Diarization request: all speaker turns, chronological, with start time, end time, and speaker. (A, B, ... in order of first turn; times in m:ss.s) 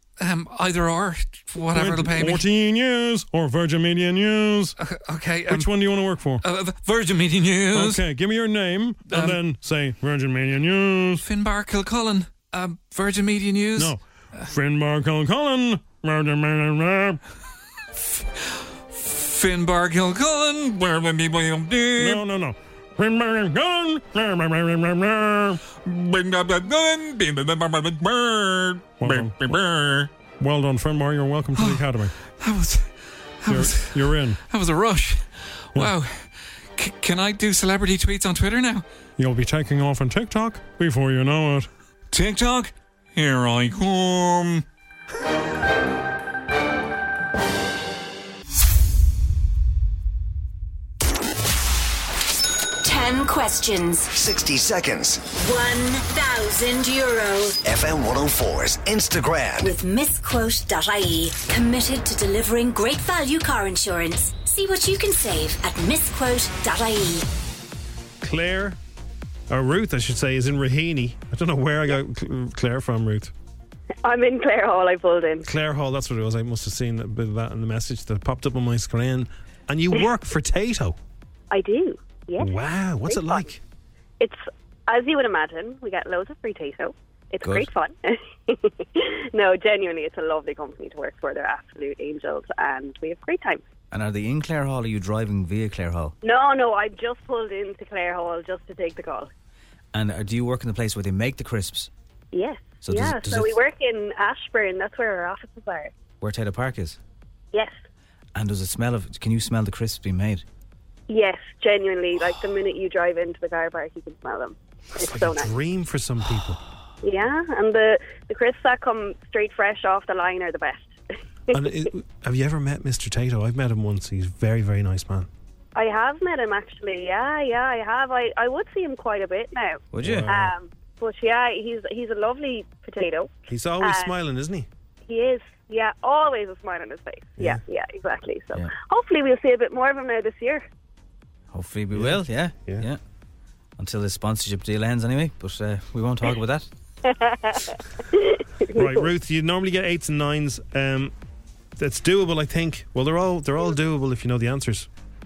0:00.2-0:02.5 A
0:01.7-0:04.7 B
0:04.8-0:05.7 A
0:05.5-0:06.4 B
0:06.4-0:08.0 A
0:07.7-0:11.2 B
0:09.1-0:09.4 A
0:11.2-0:14.5 A
0:13.7-0:17.2 B
0:18.9-0:22.2 A
0:22.0-0:25.6 B
0:25.7-0:30.1 A
0:29.0-0:29.6 B
0:30.4-0:32.1 B
0:31.6-0:31.8 A
0:32.4-0:38.8 A
0:33.5-0:34.4 B
0:39.2-0:41.7 B
0:42.1-0:44.6 A
0:52.8-0:54.0 C
0:54.1-0:55.3 D
0:55.4-0:57.4 C
0:57.6-0:59.7 D
0:59.6-1:07.0 C
1:08.2-1:08.8 E
1:09.5-1:13.3 E
1:14.0-1:15.5 F
1:15.4-1:21.0 E
1:21.5-1:23.5 F
1:22.4-1:23.6 E
1:24.2-1:33.6 F
1:27.4-1:27.7 G
1:33.9-1:36.1 G
1:36.2-1:39.3 F
1:39.9-1:41.9 G
1:42.3-1:45.9 F
1:42.8-1:43.6 G
1:46.2-1:47.0 G
1:48.3-1:50.4 G
1:51.1-1:55.5 F
1:55.0-1:56.6 E
1:57.0-2:00.9 F
2:01.5-2:05.3 E
2:05.7-2:14.1 F
2:09.9-2:10.4 G
2:10.0-2:10.5 E
2:13.5-2:14.7 E
2:15.1-2:20.6 F
2:21.5-2:23.0 G
2:21.9-2:22.9 E
2:23.8-2:26.7 G
2:27.0-2:29.1 F
2:28.7-2:31.1 E
2:31.8-2:34.9 E